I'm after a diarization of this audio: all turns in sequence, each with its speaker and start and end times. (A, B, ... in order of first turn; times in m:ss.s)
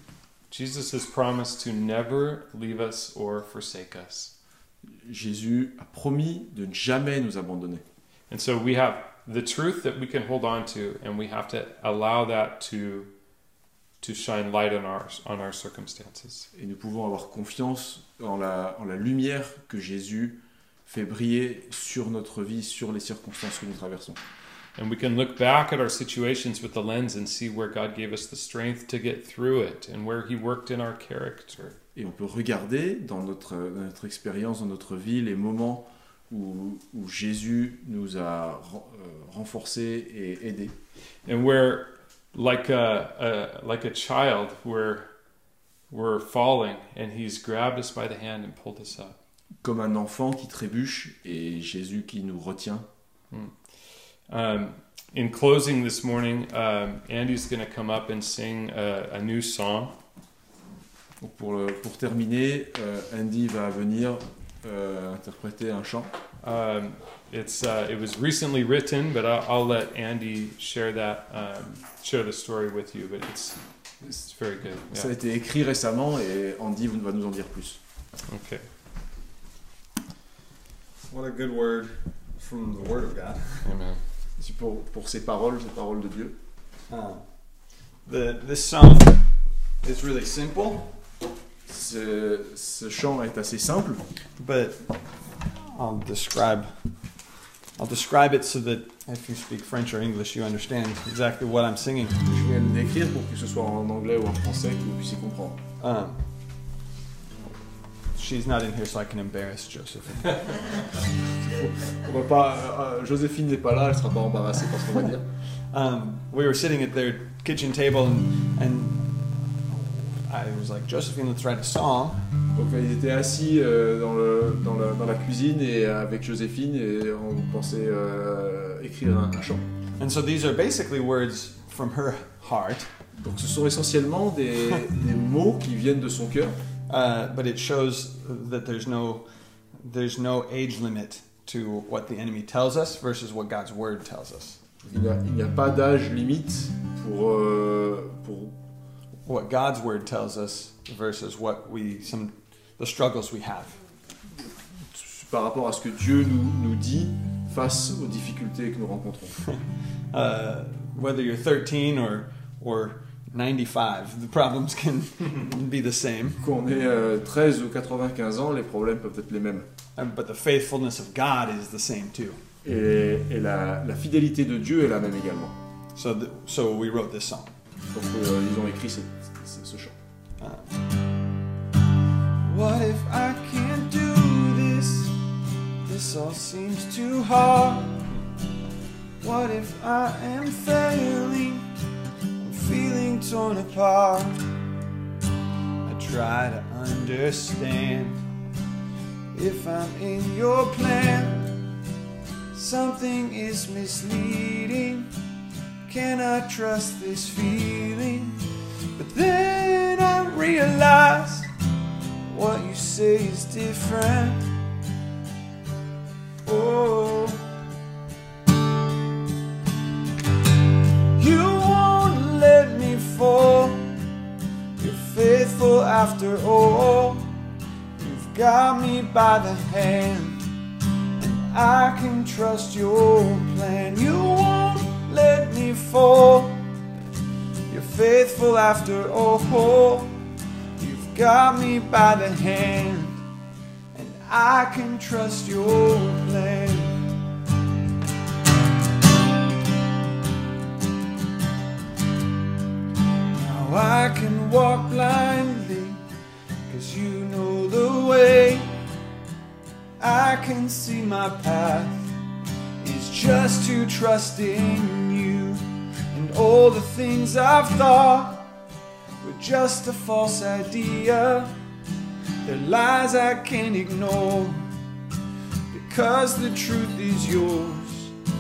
0:00.5-0:04.3 A
0:04.9-0:07.8 B
0:08.3-0:13.1 A
0:14.0-0:16.5 A
0:16.6-0:24.2 B
0:24.8-0:31.8 A
0:32.0-0:40.8 B
0:41.3-0:45.1 A
0:45.9-0:49.2 A
0:49.6-0:52.9 B
0:53.3-0:53.6 A
0:54.3-0:59.9 A
1:01.2-1:06.1 B
1:06.4-1:15.1 A
1:14.9-1:17.8 B
1:18.3-1:18.7 A
1:21.1-1:23.8 C
1:23.6-1:24.0 A
1:24.4-1:26.4 B
1:26.9-1:31.0 C
1:31.7-1:34.0 B
1:34.4-1:35.2 C
1:35.7-1:36.8 C
1:37.8-1:42.2 C
1:42.2-1:45.6 B
1:45.8-1:46.2 C
1:48.1-1:51.0 C
1:51.8-1:55.2 B
1:55.7-2:02.2 C
2:02.6-2:09.7 B
2:10.0-2:12.9 C
2:13.2-2:16.6 B
2:16.9-2:24.6 C
2:24.8-2:28.6 B
2:29.3-2:33.8 C
2:34.8-2:39.4 B
2:39.4-2:46.4 C
2:46.4-2:49.7 B
2:50.0-2:52.4 C
2:52.6-2:55.6 B
2:56.0-2:57.6 C
2:57.9-3:00.0 B
3:00.4-3:00.7 C
3:02.5-3:05.2 C
3:05.9-3:08.0 C
3:09.2-3:11.7 C
3:12.4-3:14.5 C
3:15.8-3:18.2 C
3:19.4-3:21.6 C
3:22.5-3:25.1 C
3:25.9-3:28.4 C
3:29.0-3:31.5 C
3:32.3-3:34.5 C
3:36.4-3:37.5 C
3:41.2-3:44.0 C
3:44.8-3:47.3 C
3:48.0-3:50.4 C
3:51.2-3:56.6 C
3:57.7-4:00.2 C
4:00.8-4:03.2 C
4:03.9-4:07.1 C
4:13.3-4:16.0 C
4:16.7-4:18.7 C
4:20.0-4:22.1 C
4:22.8-4:28.5 C
4:29.2-4:31.6 C
4:32.4-4:34.7 C
4:35.7-4:38.2 C